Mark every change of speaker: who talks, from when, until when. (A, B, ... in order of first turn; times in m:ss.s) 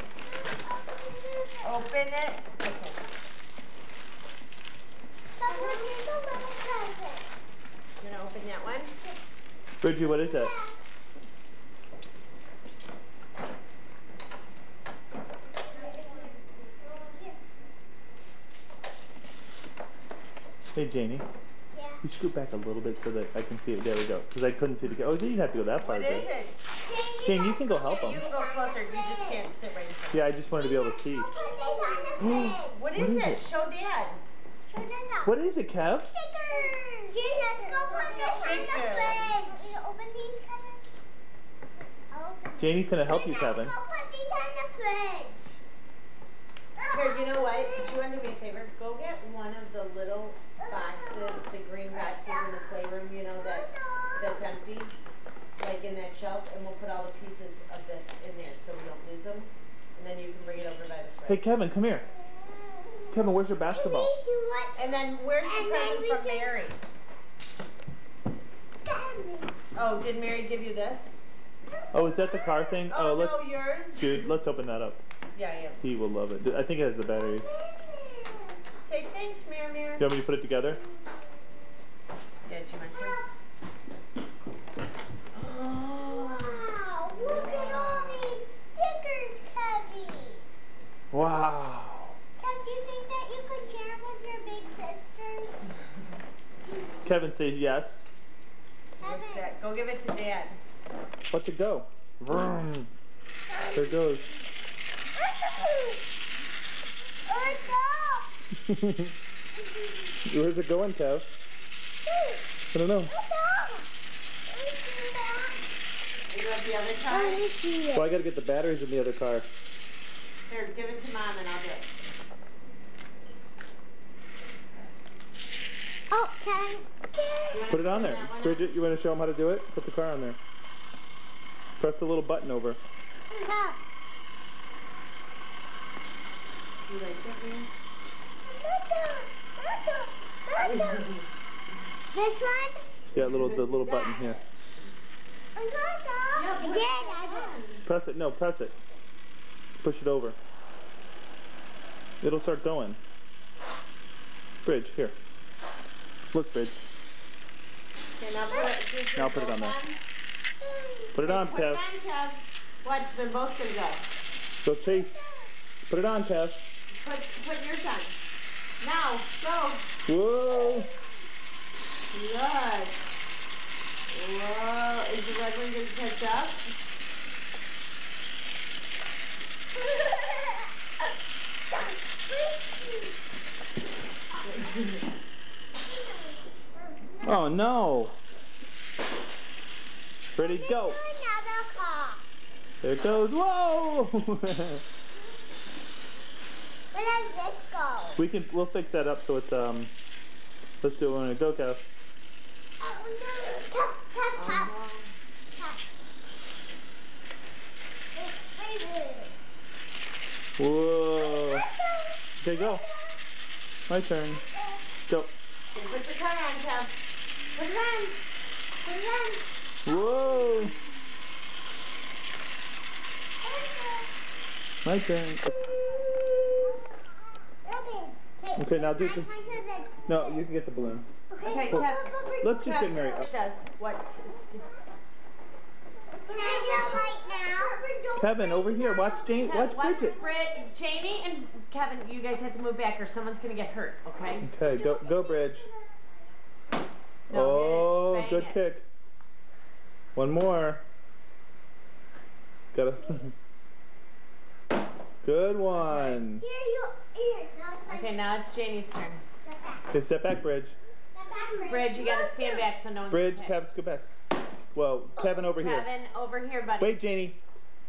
0:00.3-0:01.8 A
0:01.6-0:03.0 B
0:05.4-0:07.2 A
0:05.5-0:05.9 B
0:08.0-0:08.9 B
0:09.8-0:10.5 C
0:10.2-0:10.7 A
0:15.8-0:16.3 A
0:16.9-0:17.3 A
0:20.8-0:21.3 C
0:21.7-0:22.0 A
0:22.0-0:26.3 C
0:25.8-0:26.6 B
0:26.8-0:29.4 A
0:27.2-0:28.2 C
0:27.9-0:30.4 B
0:30.1-0:31.3 C
0:30.5-0:32.8 A
0:32.2-0:33.4 C
0:32.7-0:34.2 B
0:34.7-0:35.3 A
0:35.2-0:36.1 C
0:36.1-0:40.8 A
0:37.7-0:39.4 B
0:42.1-0:45.5 A
0:42.6-0:43.7 C
0:46.8-0:47.8 A
0:46.9-0:54.9 B
0:50.6-0:51.4 A
0:52.0-0:52.7 A
0:53.4-0:54.4 A
0:55.6-1:01.4 B
1:01.3-1:02.1 C
1:02.5-1:03.1 A
1:03.1-1:04.2 C
1:03.7-1:04.8 A
1:04.8-1:06.8 B
1:05.4-1:06.6 A
1:08.8-1:09.5 A
1:09.8-1:11.1 B
1:11.9-1:15.0 C
1:12.1-1:12.5 A
1:12.9-1:14.3 B
1:15.3-1:15.8 B
1:15.8-1:17.5 C
1:17.1-1:18.6 A
1:18.8-1:20.1 B
1:20.0-1:20.8 C
1:22.4-1:23.2 B
1:22.9-1:23.2 A
1:25.4-1:28.4 B
1:26.0-1:30.4 A
1:31.1-1:32.2 C
1:32.4-1:35.6 A
1:37.0-1:38.1 C
1:39.0-1:40.6 B
1:39.0-1:39.5 A
1:41.3-1:42.9 C
1:43.6-1:43.8 A
1:43.7-1:44.3 C
1:45.6-1:46.0 A
1:47.3-1:48.3 A
1:48.7-1:49.1 C
1:50.3-1:51.3 C
1:52.1-1:52.4 A
1:52.7-1:53.1 C
1:53.1-1:53.8 A
1:54.5-1:55.6 A
1:56.3-1:57.4 B
1:57.1-1:58.1 A
1:57.9-1:59.5 C
2:00.5-2:01.9 B
2:06.1-2:07.6 A
2:07.5-2:08.7 B
2:07.7-2:10.4 C
2:11.8-2:12.8 C
2:13.3-2:13.8 A
2:16.9-2:17.7 B
2:18.5-2:21.1 A
2:20.6-2:21.3 B
2:22.1-2:22.8 A
2:23.1-2:24.4 C
2:23.2-2:24.4 B
2:25.6-2:27.5 A
2:26.3-2:27.8 B
2:27.8-2:28.8 C
2:29.8-2:30.4 C
2:32.2-2:33.0 C
2:34.6-2:35.2 C
2:36.3-2:36.8 C
2:38.2-2:40.0 B
2:38.5-2:38.8 A
2:39.2-2:39.8 C
2:40.6-2:41.2 A
2:41.1-2:41.8 C
2:41.2-2:44.0 B
2:44.6-2:45.2 C
2:44.8-2:45.5 A
2:45.9-2:46.6 C
2:47.0-2:48.2 B
2:48.8-2:49.8 B
2:50.1-2:50.9 C
2:52.1-2:53.0 B
2:54.1-2:56.6 B
3:00.0-3:00.5 A
3:02.3-3:03.1 A
3:04.4-3:05.1 B
3:05.9-3:07.4 A
3:07.2-3:08.2 C
3:10.4-3:11.0 C
3:10.4-3:12.2 A
3:12.8-3:14.8 C
3:16.9-3:18.2 A
3:18.2-3:19.9 C
3:20.8-3:21.8 C
3:22.8-3:24.7 A
3:24.3-3:25.1 B
3:25.6-3:25.8 A
3:28.2-3:29.3 A
3:30.6-3:31.7 C
3:31.1-3:33.2 A
3:32.4-3:32.8 C
3:33.9-3:34.4 C
3:35.7-3:36.9 B
3:37.5-3:38.2 B
3:38.8-3:40.7 A
3:39.8-3:40.8 C
3:43.4-3:44.1 A
3:44.8-3:45.5 C
3:47.6-3:50.4 A
3:48.6-3:49.3 C
3:50.1-3:51.1 C
3:51.3-3:52.5 A
3:51.4-3:54.6 B
3:52.4-3:53.3 C
3:56.3-3:57.0 B
3:56.3-3:59.4 A
3:58.2-4:00.2 C
3:59.4-4:04.5 B
4:00.0-4:00.6 A
4:04.4-4:05.7 C
4:04.6-4:05.8 A
4:07.3-4:08.6 B
4:07.3-4:08.8 C
4:10.2-4:10.8 C
4:12.7-4:13.3 C
4:15.2-4:16.4 C
4:15.7-4:16.2 B
4:16.4-4:18.2 A
4:17.9-4:19.2 B
4:19.4-4:19.9 A
4:19.9-4:20.8 C
4:21.2-4:22.7 A
4:21.7-4:23.6 B
4:23.1-4:24.1 C
4:24.7-4:25.9 C
4:25.6-4:27.0 B
4:26.8-4:27.4 C